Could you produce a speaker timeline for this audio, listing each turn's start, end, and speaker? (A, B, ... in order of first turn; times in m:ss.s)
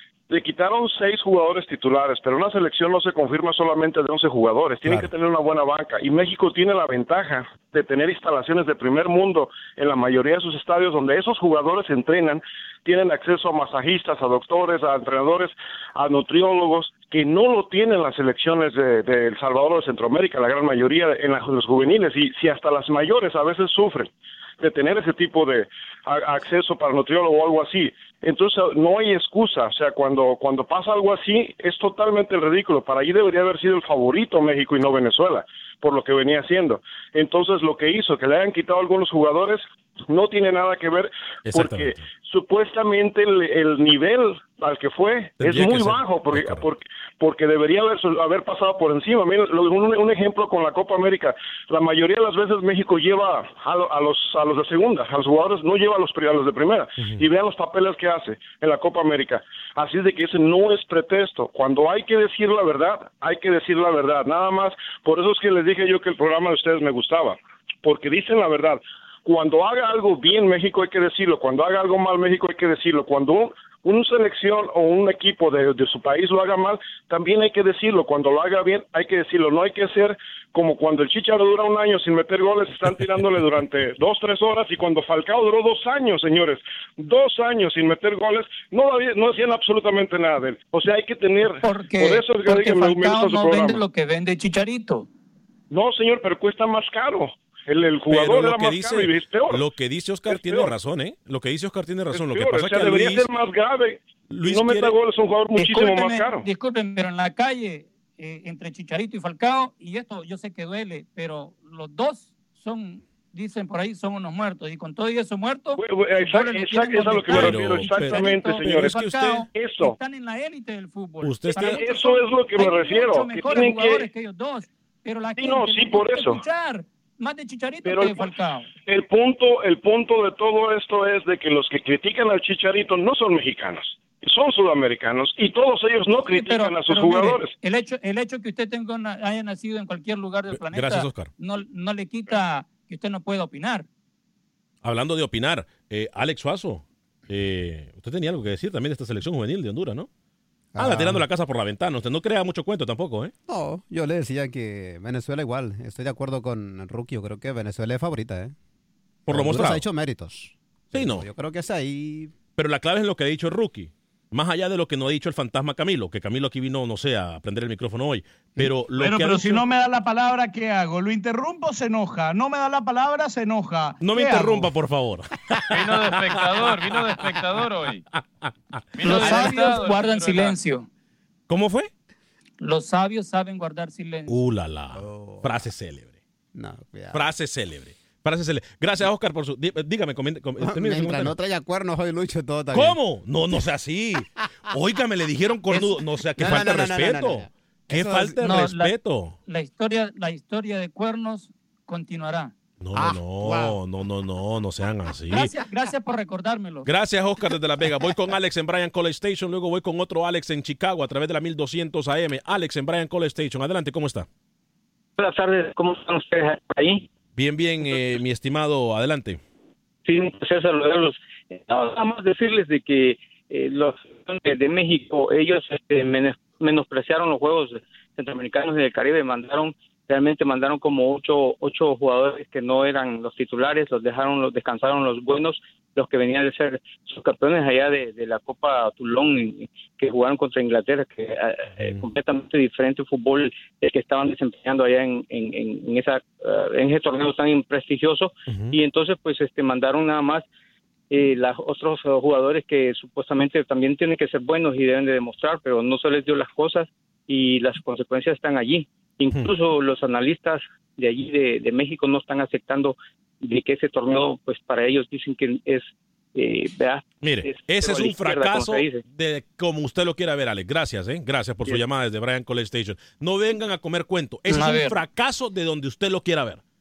0:00.3-1:33.8 A
0:04.8-0:05.1 B
0:41.4-0:42.1 B
0:45.4-0:46.6 B
1:31.6-1:35.1 C
1:35.7-1:39.6 A
1:38.1-1:43.3 B
1:40.3-1:40.7 A
1:42.1-1:46.4 A
1:44.3-1:45.0 B
1:45.5-2:08.7 C
1:55.8-2:00.0 A
1:57.3-1:59.4 B
2:01.2-2:01.8 B
2:01.5-2:04.1 A
2:05.4-2:06.4 A
2:07.8-2:08.3 A
2:08.8-2:17.5 A
2:16.3-2:23.9 C
2:20.5-2:21.3 B
2:24.8-2:30.1 B
2:30.7-2:31.3 D
2:30.8-2:33.3 B
2:33.5-2:38.6 D
2:39.3-2:39.8 B
2:39.3-2:42.3 D
2:40.9-2:41.3 B
2:42.6-2:49.6 B
2:49.0-2:54.7 E
2:54.0-2:57.2 B
2:55.7-2:58.0 F
2:58.1-2:59.5 B
2:59.0-3:00.6 F
2:59.0-3:00.8 C
3:01.5-3:01.9 B
3:02.6-3:04.4 C
3:04.3-3:06.1 B
3:04.9-3:05.6 D
3:06.5-3:07.3 D
3:07.1-3:11.4 B
3:10.6-3:13.0 D
3:12.7-3:19.4 B
3:15.7-3:18.4 D
3:18.4-3:18.9 C
3:19.5-3:22.5 C
3:22.8-3:25.5 B
3:22.9-3:23.8 D
3:25.3-3:26.9 C
3:26.8-3:34.3 B
3:35.2-3:37.1 G
3:37.4-3:39.4 B
3:40.0-4:10.4 G
4:01.8-4:02.1 B
4:08.5-4:08.8 B
4:11.1-4:29.0 G
4:27.2-4:36.6 B
4:34.5-4:35.0 C